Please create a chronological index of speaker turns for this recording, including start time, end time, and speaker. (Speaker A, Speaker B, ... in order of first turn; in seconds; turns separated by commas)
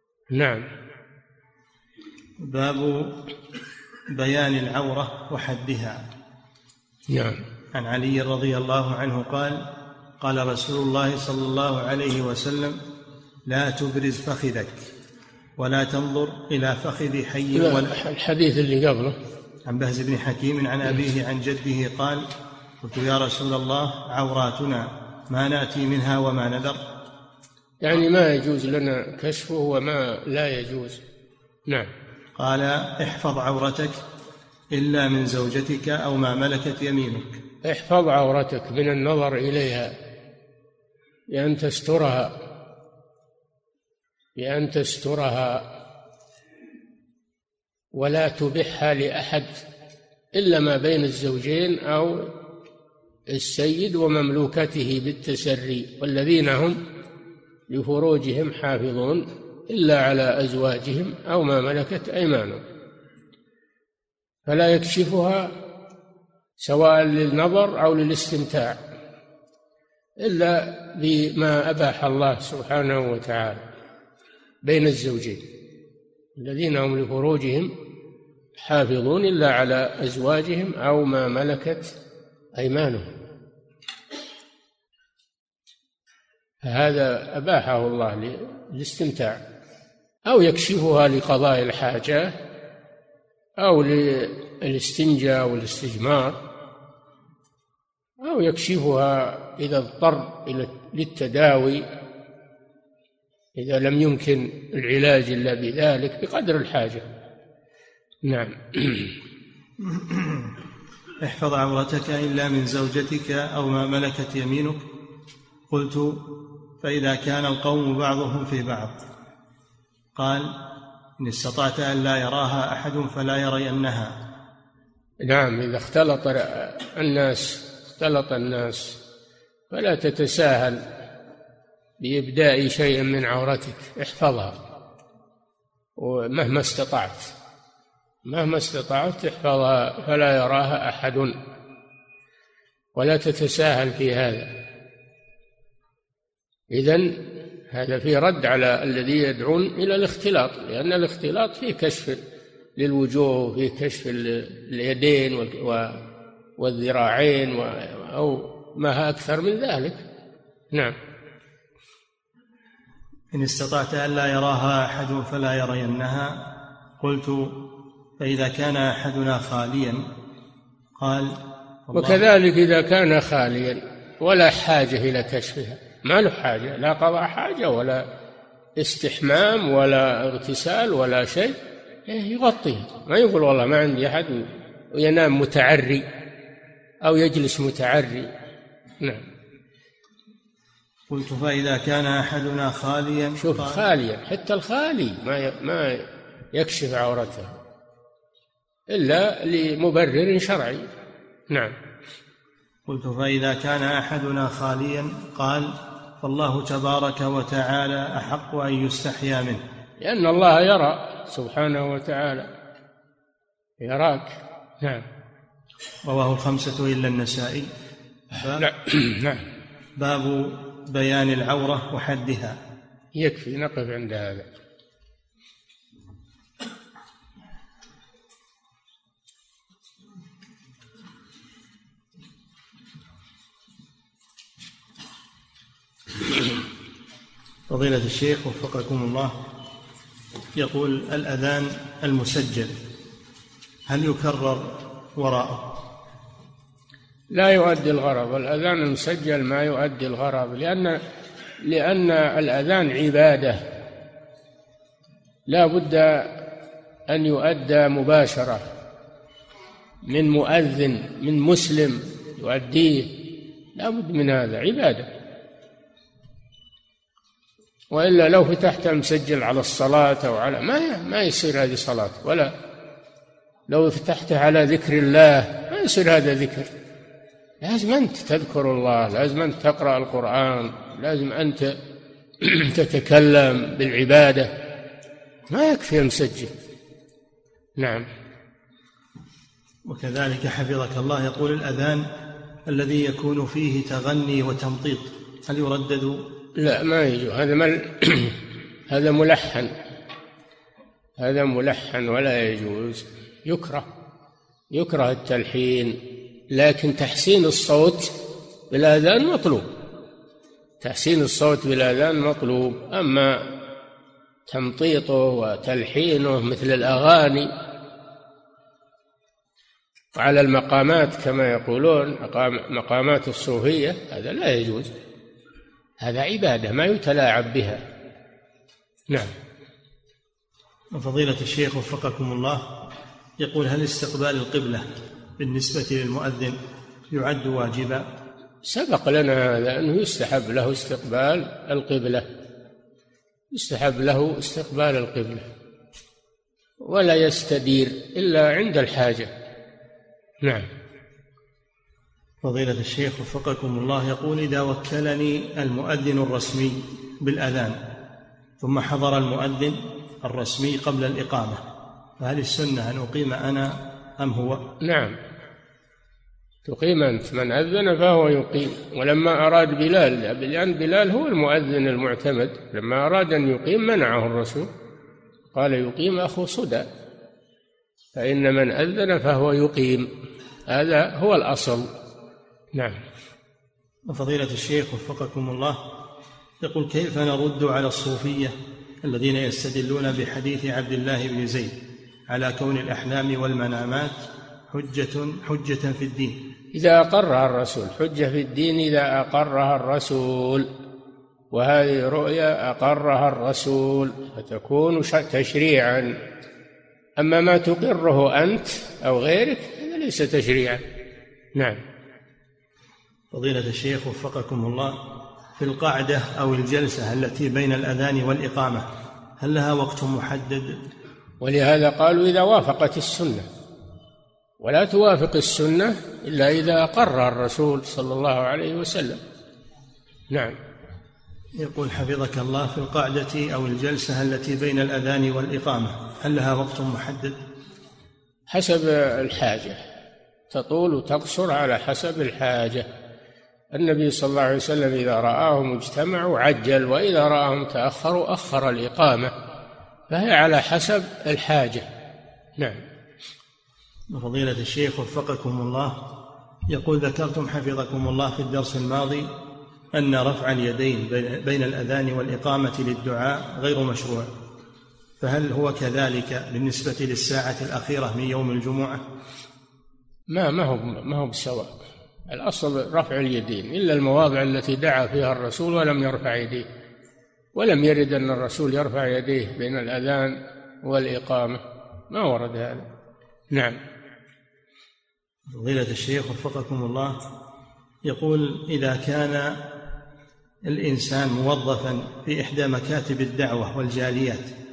Speaker A: 0.3-0.7, Speaker B: 2.4-3.1, Speaker B: 4.1-6.0, Speaker A: 7.1-7.4, Speaker B: 7.7-9.6, Speaker B: 10.2-12.8, Speaker B: 13.5-14.9, Speaker B: 15.6-18.0, Speaker A: 17.6-19.2, Speaker B: 19.7-22.3, Speaker B: 22.8-26.8, Speaker A: 27.8-31.0, Speaker B: 32.4-34.0, Speaker B: 34.7-37.4, Speaker A: 37.6-39.9, Speaker A: 41.3-42.4, Speaker A: 44.4-45.6, Speaker A: 47.9-49.6, Speaker A: 50.3-52.3, Speaker A: 53.3-56.8, Speaker A: 57.7-62.6, Speaker A: 64.5-65.5, Speaker A: 66.6-68.8, Speaker A: 70.2-73.7, Speaker A: 74.6-75.4, Speaker A: 76.4-77.7, Speaker A: 78.6-81.9, Speaker A: 82.6-83.1, Speaker A: 86.6-89.4, Speaker A: 90.3-92.4, Speaker A: 93.6-96.4, Speaker A: 98.2-101.9, Speaker A: 103.6-107.1, Speaker A: 108.2-109.2, Speaker B: 109.8-110.5, Speaker B: 111.2-114.8, Speaker B: 115.7-116.2, Speaker B: 116.8-118.9, Speaker B: 120.2-120.5, Speaker B: 121.2-124.2, Speaker A: 125.2-129.0, Speaker A: 129.7-130.8, Speaker A: 132.0-134.6, Speaker A: 136.0-137.3, Speaker A: 138.2-141.3, Speaker A: 142.9-144.5, Speaker A: 146.7-147.2, Speaker A: 147.7-152.2, Speaker A: 152.8-156.0, Speaker A: 156.6-160.1, Speaker B: 163.3-166.5, Speaker B: 167.0-167.6, Speaker B: 168.2-170.1, Speaker B: 171.0-172.2, Speaker A: 171.9-178.1, Speaker A: 178.8-186.1, Speaker A: 187.0-188.3, Speaker A: 189.0-189.3, Speaker B: 191.1-193.8, Speaker A: 193.4-197.6, Speaker A: 198.9-200.9, Speaker A: 201.5-201.8, Speaker B: 202.9-209.6, Speaker A: 210.0-212.5, Speaker A: 213.8-215.1, Speaker B: 216.1-217.7, Speaker B: 218.3-218.7, Speaker A: 218.6-219.5, Speaker B: 220.0-222.6, Speaker A: 223.2-224.5, Speaker B: 237.7-239.3, Speaker B: 240.6-242.7, Speaker B: 243.9-245.8, Speaker A: 247.3-251.0, Speaker A: 251.6-253.6, Speaker A: 255.5-256.3, Speaker A: 257.1-258.7, Speaker A: 260.1-263.1, Speaker A: 263.8-265.1, Speaker A: 267.9-272.5, Speaker A: 273.7-276.7, Speaker A: 277.6-281.7, Speaker A: 282.4-284.5, Speaker A: 285.5-286.5, Speaker A: 287.8-288.1, Speaker B: 289.9-292.1, Speaker B: 292.7-296.2, Speaker A: 296.6-299.8, Speaker A: 301.2-303.9, Speaker A: 304.7-306.0, Speaker A: 306.5-308.1, Speaker A: 308.7-309.7, Speaker A: 310.8-313.5, Speaker A: 314.5-317.5, Speaker A: 320.1-324.9, Speaker A: 326.0-327.8, Speaker A: 329.1-329.3, Speaker B: 330.9-332.7, Speaker B: 333.4-334.9, Speaker B: 335.4-336.6, Speaker B: 337.1-338.1, Speaker A: 338.6-342.3, Speaker A: 343.5-345.5, Speaker A: 346.8-349.3, Speaker A: 350.4-350.7, Speaker B: 352.4-357.8, Speaker B: 358.6-361.6, Speaker B: 362.2-364.6, Speaker A: 364.8-365.2, Speaker A: 366.6-374.7, Speaker A: 375.5-376.9, Speaker A: 378.1-380.1, Speaker A: 380.7-381.9, Speaker A: 382.7-383.0, Speaker B: 384.1-385.8, Speaker B: 386.6-391.8, Speaker B: 392.3-394.2, Speaker B: 394.7-396.4, Speaker A: 396.7-400.7, Speaker A: 401.5-406.1, Speaker A: 407.2-410.8, Speaker A: 411.6-411.8, Speaker B: 413.3-415.0, Speaker B: 415.6-418.9, Speaker B: 419.4-420.8, Speaker A: 421.4-423.5, Speaker A: 424.6-429.2, Speaker A: 430.3-430.6, Speaker B: 431.6-437.4, Speaker A: 438.5-439.8, Speaker A: 440.5-442.9, Speaker A: 443.7-449.3, Speaker A: 450.1-451.9, Speaker A: 452.6-452.8, Speaker B: 454.1-456.0, Speaker B: 456.7-459.3, Speaker B: 459.9-464.3, Speaker B: 465.2-469.0, Speaker A: 470.3-471.8, Speaker A: 472.3-476.7, Speaker A: 477.5-482.9, Speaker A: 483.5-483.8, Speaker B: 485.5-487.2, Speaker B: 488.1-489.6, Speaker B: 490.6-494.5